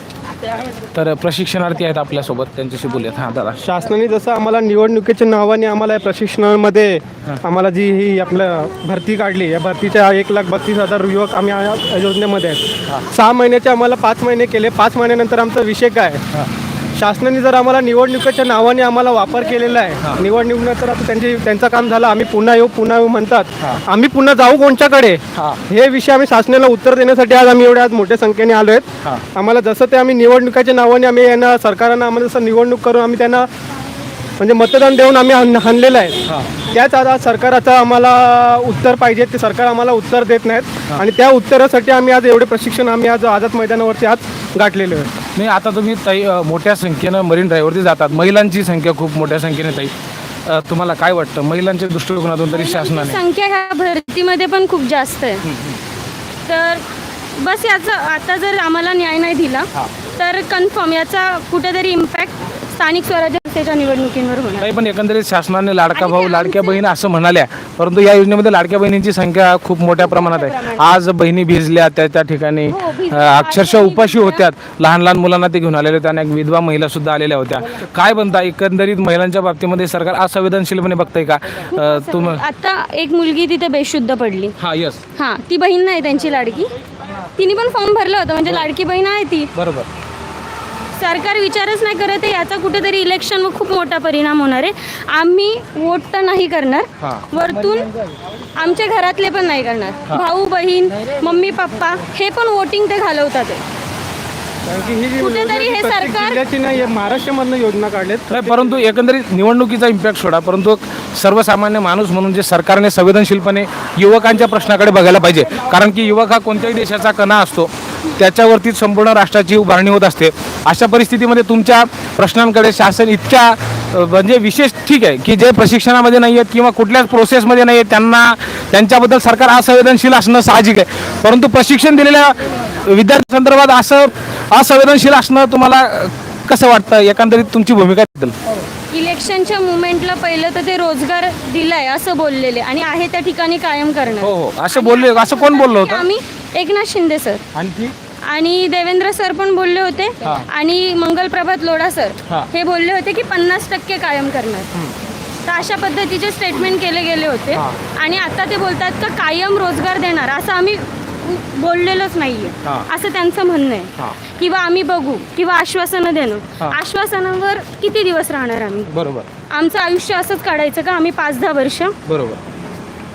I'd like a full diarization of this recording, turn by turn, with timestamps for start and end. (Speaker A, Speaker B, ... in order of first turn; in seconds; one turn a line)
Speaker A: 0.9-3.6
Speaker B: 3.6-16.2
Speaker B: 17.0-33.5
Speaker A: 25.4-25.6
Speaker B: 34.4-45.1
Speaker A: 36.3-36.5
Speaker A: 45.4-49.9
Speaker A: 50.5-53.2
Speaker C: 52.5-55.5
Speaker A: 55.4-55.8
Speaker C: 56.5-56.8
Speaker C: 57.4-64.7
Speaker A: 64.6-82.4
Speaker C: 66.0-66.8
Speaker C: 70.0-70.8
Speaker C: 72.7-74.4
Speaker C: 81.7-84.5
Speaker A: 84.6-85.0
Speaker C: 85.2-86.7
Speaker C: 87.4-89.5
Speaker A: 89.5-89.9
Speaker C: 91.0-97.9
Speaker A: 97.0-97.3
Speaker C: 98.6-103.6
Speaker B: 104.7-108.7
Speaker C: 105.2-106.4
Speaker A: 108.3-138.3
Speaker C: 138.9-147.4
Speaker A: 144.2-146.1
Speaker A: 147.5-147.9
Speaker C: 148.3-154.7
Speaker C: 155.5-168.9
Speaker A: 168.9-169.3
Speaker C: 169.5-171.9
Speaker A: 172.1-172.4